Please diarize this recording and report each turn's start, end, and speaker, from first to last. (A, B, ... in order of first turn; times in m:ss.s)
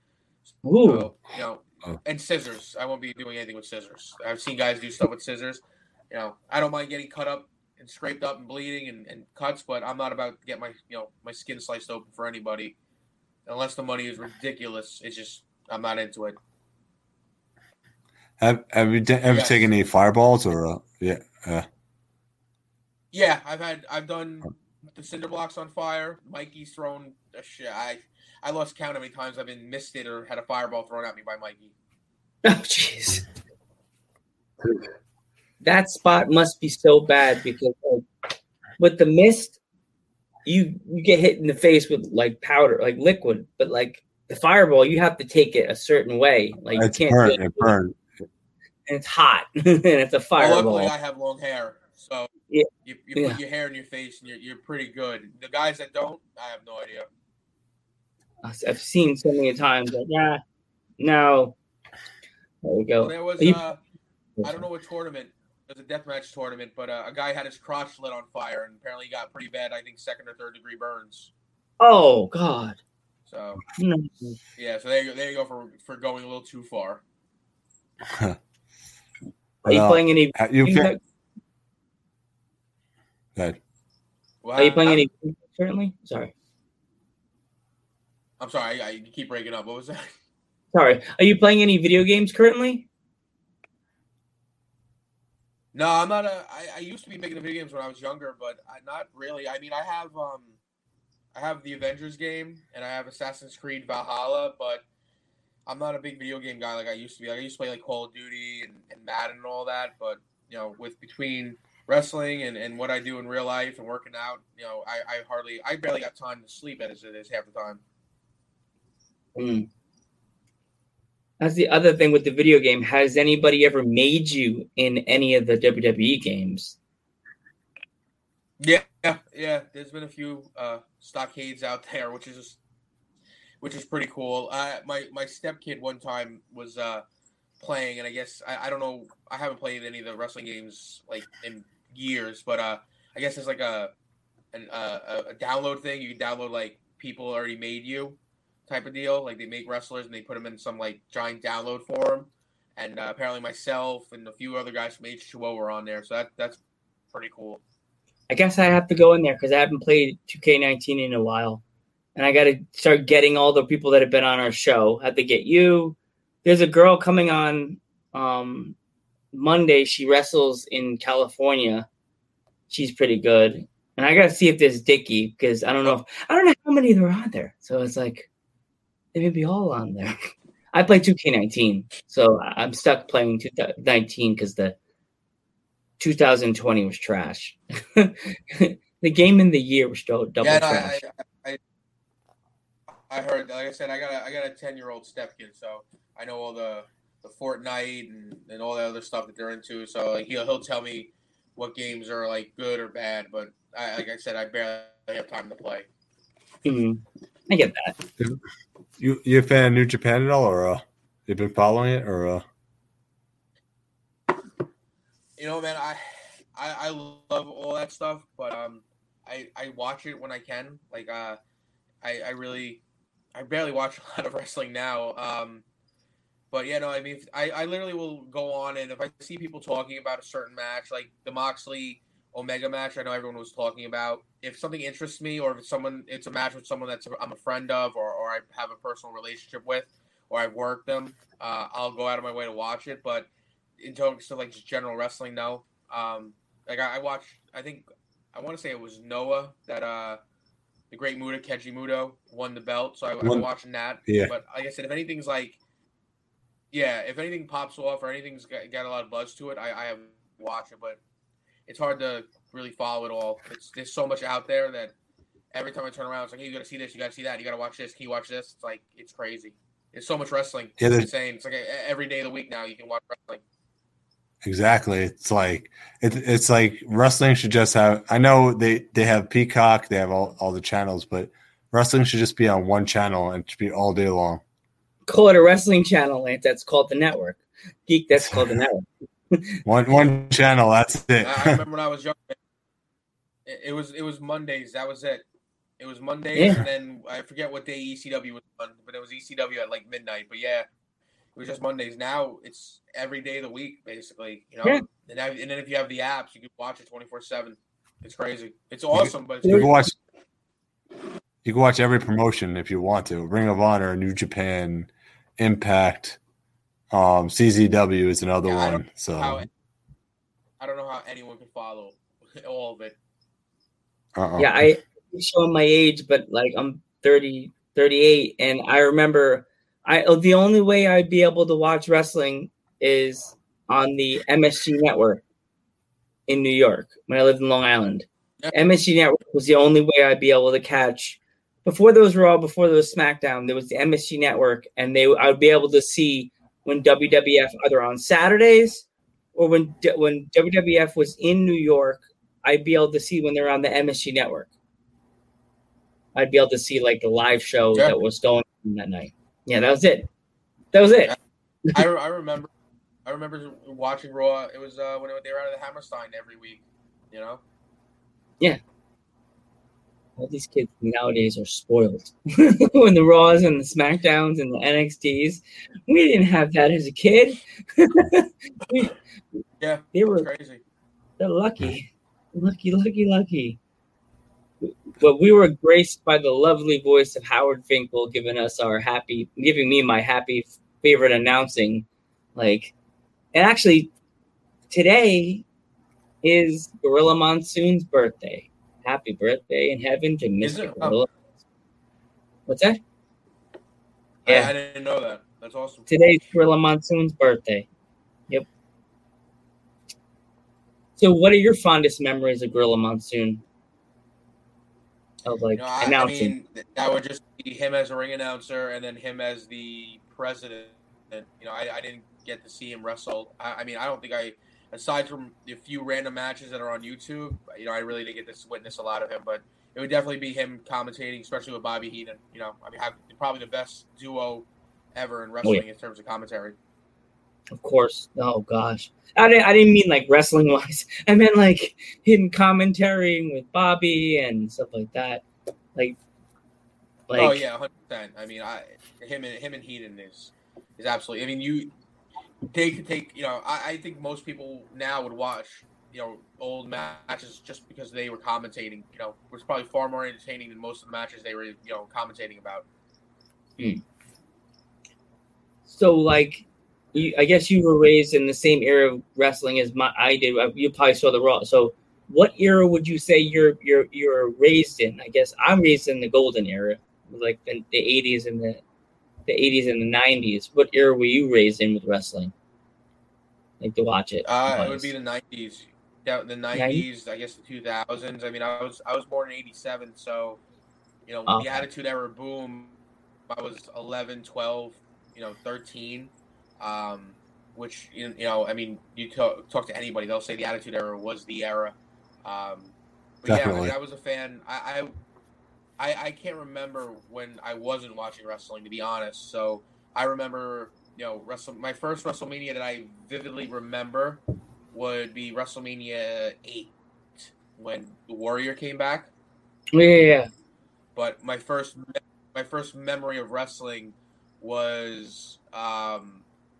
0:00.4-0:12.8 A
0:00.6-0:01.1 B
0:13.4-0:16.4 A
0:18.4-0:21.7 C
0:19.3-0:19.7 A
0:23.1-0:31.7 A
0:32.4-0:33.2 B
0:35.6-0:38.0 B
0:38.8-0:39.6 B
0:40.4-0:47.7 B
0:46.7-0:48.0 C
0:48.9-0:50.9 B
0:50.4-0:52.3 A
0:52.5-0:53.4 B
0:52.8-0:57.1 A
0:58.4-1:00.4 B
1:01.0-1:01.6 B
1:02.6-1:03.6 B
1:03.0-1:03.8 A
1:04.4-1:11.3 A
1:11.8-1:12.8 B
1:13.3-1:13.6 A
1:13.8-1:14.4 B
1:14.6-1:17.0 A
1:18.0-1:18.4 C
1:19.6-1:20.9 C
1:19.7-1:21.0 B
1:24.4-1:25.0 A
1:24.6-1:26.3 B
1:28.4-1:30.1 A
1:30.7-1:32.9 B
1:35.7-1:40.5 A
1:41.3-1:44.8 A
1:45.6-1:57.8 A
1:59.4-1:59.7 B
2:01.4-2:06.8 B
2:08.6-2:12.6 A
2:13.6-2:17.0 A
2:17.6-2:23.9 A
2:24.5-2:36.6 A
2:37.1-2:37.6 A
2:38.3-2:41.6 B
2:42.2-2:48.8 B
2:49.3-2:51.9 B
2:52.7-2:58.3 B
2:59.1-3:04.8 B
3:06.0-3:11.0 B
3:10.4-3:11.6 A
3:13.1-3:25.8 A
3:26.6-3:27.9 B
3:29.0-3:32.4 C
3:35.4-3:36.0 A
3:36.5-3:41.4 A
3:42.0-3:42.8 A
3:43.3-3:45.6 A
3:46.5-4:03.3 A
4:03.8-4:10.2 A
4:10.9-4:15.6 A
4:14.1-4:14.3 C
4:16.7-4:21.0 A
4:21.7-4:24.9 A
4:25.5-4:33.4 A
4:30.8-4:31.1 C
4:34.4-4:44.4 C
4:45.1-4:49.6 B
4:49.6-4:51.6 C
4:51.2-4:52.4 A
4:53.4-4:55.2 A
4:55.8-5:00.6 A
4:56.3-4:56.6 B
5:01.3-5:09.7 A
5:08.9-5:09.9 C
5:09.4-5:09.7 B
5:11.4-5:16.2 C
5:16.9-5:19.5 C
5:18.4-5:19.5 A
5:20.6-5:22.9 A
5:24.2-5:24.7 C
5:24.4-5:35.2 B
5:36.3-5:54.5 B
5:56.1-6:00.1 B
6:00.7-6:01.1 B
6:01.7-6:02.5 A
6:03.0-6:07.4 A
6:10.2-6:18.9 B
6:19.6-6:20.6 A
6:19.9-6:20.3 B
6:21.2-6:23.6 B
6:24.6-6:32.7 B
6:33.3-6:33.9 B
6:34.7-6:35.4 B
6:36.2-6:41.1 B
6:40.4-6:41.0 A
6:42.5-6:42.8 B
6:44.2-6:44.5 B
6:44.2-6:45.9 A
6:45.9-6:47.7 B
6:51.0-6:53.4 B
6:55.2-6:56.3 B
6:55.5-7:16.6 A
7:17.5-7:25.2 B
7:27.1-7:27.4 B
7:27.2-7:31.7 A
7:32.5-7:42.6 A
7:45.7-7:58.6 B
7:59.2-8:02.3 B
8:03.6-8:04.9 B
8:04.2-8:10.4 A
8:06.5-8:06.8 B
8:11.1-8:12.7 A
8:11.3-8:11.6 B
8:13.3-8:24.9 A
8:23.2-8:23.7 C
8:25.8-8:34.2 A
8:34.7-8:39.1 A
8:39.7-8:40.3 B
8:41.0-8:46.2 A